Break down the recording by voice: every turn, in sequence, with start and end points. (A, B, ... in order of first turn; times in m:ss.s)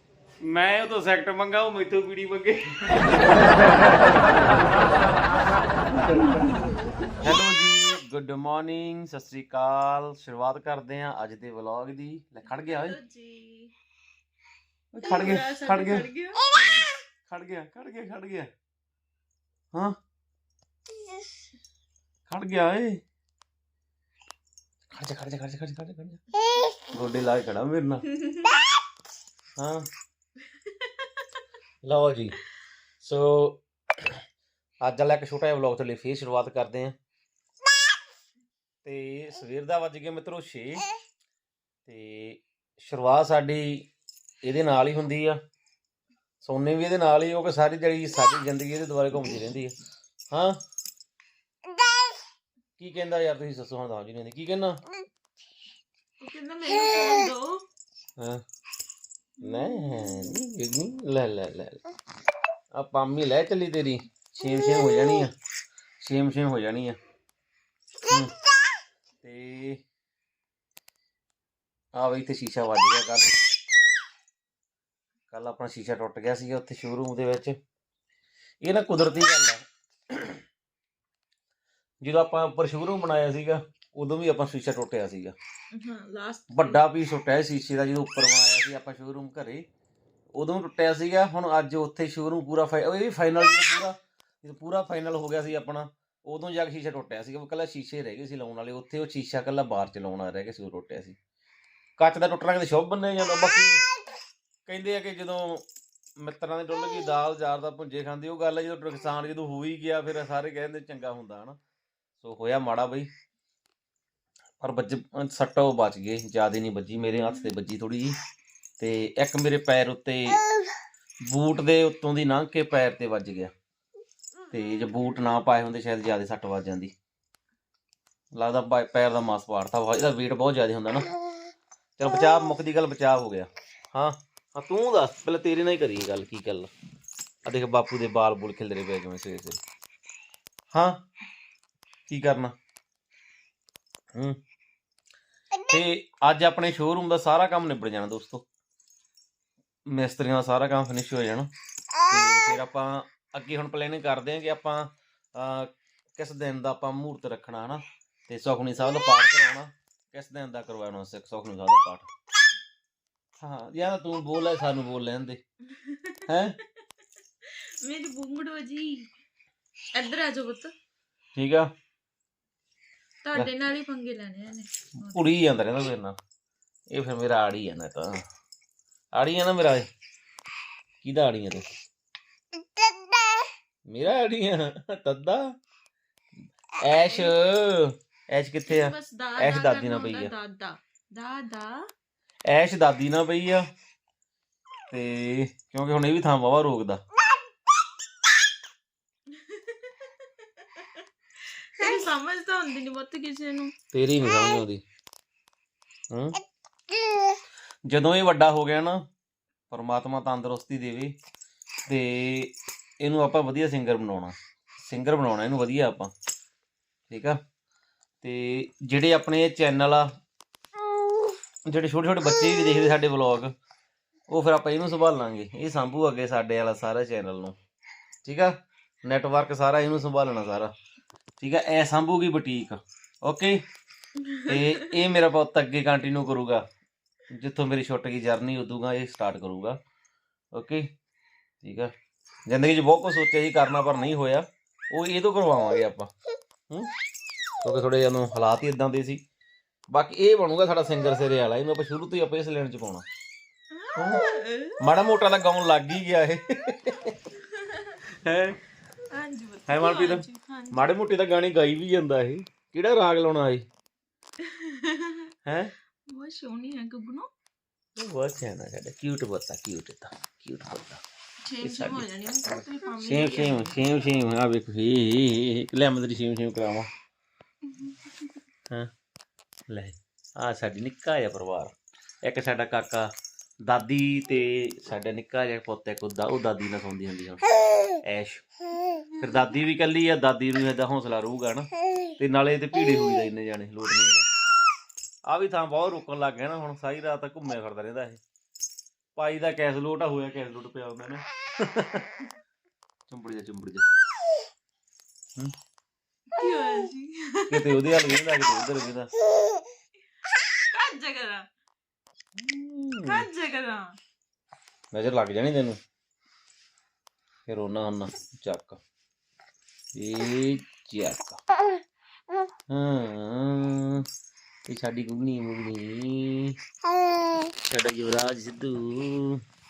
0:00.4-0:03.4 A
0:07.2-0:13.0 A
0:12.5-0:13.7 B
0:14.9-0:16.1 A
0:15.0-0:16.9 B
0:17.3-0:18.5 A
0:22.3-0:23.0 A
0:24.9-0:26.2 A
0:26.8-0:28.1 A
0:29.6-0:29.9 A
0:31.8-0:32.4 A
0:33.0-0:34.2 A
0:34.8-0:37.0 A
0:38.8-0:40.8 A
0:41.8-0:43.8 A
0:44.4-0:45.4 A
0:46.4-0:49.7 A
0:50.3-0:50.6 A
0:52.8-0:54.8 A
0:56.2-0:57.6 B
0:59.4-1:01.8 A
0:59.4-1:00.1 B
1:02.7-1:05.3 A
1:06.0-1:07.0 A
1:08.0-1:08.3 A
1:09.2-1:09.8 A
1:11.9-1:13.4 A
1:15.3-1:17.6 A
1:18.6-1:20.4 A
1:22.0-1:25.3 A
1:25.7-1:26.8 B
1:26.5-1:29.6 A
1:30.3-1:41.2 A
1:42.0-1:43.8 A
1:44.6-1:45.6 A
1:46.2-1:51.6 A
1:52.2-1:53.1 A
1:54.6-1:58.2 A
1:58.8-2:00.4 A
2:01.2-2:03.5 A
2:04.5-2:06.9 A
2:08.3-2:11.1 A
2:12.0-2:16.7 A
2:17.4-2:19.6 A
2:20.7-2:21.0 A
2:22.1-2:22.5 A
2:24.1-2:24.4 A
2:25.6-2:28.4 A
2:29.9-2:31.5 A
2:32.0-2:42.1 A
2:43.4-2:45.4 A
2:45.7-2:46.2 B
2:46.2-2:46.6 A
2:47.4-2:49.1 B
2:49.9-2:50.7 B
2:51.3-2:51.7 A
2:53.2-2:55.3 B
2:55.0-2:56.2 A
2:56.9-2:58.2 A
2:59.1-2:59.9 A
3:01.0-3:01.6 A
3:03.9-3:05.4 A
3:06.8-3:10.3 A
3:07.0-3:07.4 B
3:08.6-3:11.9 B
3:12.5-3:13.6 A
3:14.9-3:17.0 A
3:19.3-3:23.7 B
3:23.9-3:24.8 A
3:26.1-3:26.4 A
3:27.9-3:29.0 A
3:29.7-3:31.1 A
3:31.9-3:36.1 A
3:37.1-3:37.4 A
3:38.2-3:40.1 A
3:41.6-3:43.5 A
3:44.3-3:47.6 A
3:48.2-3:50.7 A
3:51.4-3:53.6 A
3:54.2-3:54.6 B
3:54.4-3:56.6 A
3:57.3-3:59.8 A
4:00.5-4:00.9 A
4:01.6-4:01.9 A
4:02.5-4:06.1 A
4:07.6-4:09.2 A
4:09.9-4:13.0 A
4:13.7-4:14.8 B
4:14.0-4:14.2 A
4:14.8-4:17.2 A
4:17.5-4:18.0 B
4:18.1-4:18.6 A
4:19.1-4:20.9 B
4:19.7-4:23.6 A
4:24.4-4:25.3 B
4:25.4-4:25.7 A
4:26.1-4:27.3 B
4:27.9-4:31.0 A
4:31.4-4:33.8 B
4:31.6-4:32.0 A
4:33.0-4:36.9 A
4:37.7-4:38.3 B
4:39.7-4:41.7 A
4:42.2-4:43.1 A
4:43.6-4:47.4 A
4:48.0-4:48.5 A
4:49.2-4:54.3 A
4:55.2-4:58.2 A
4:59.2-5:02.1 A
5:03.1-5:03.8 A
5:06.3-5:08.1 B
5:07.5-5:09.1 A
5:10.7-5:11.5 B
5:12.4-5:13.3 A
5:13.0-5:14.0 B
5:14.9-5:15.8 A
5:17.4-5:18.8 A
5:19.9-5:21.4 A
5:22.7-5:24.0 A
5:24.7-5:26.5 A
5:27.6-5:29.4 A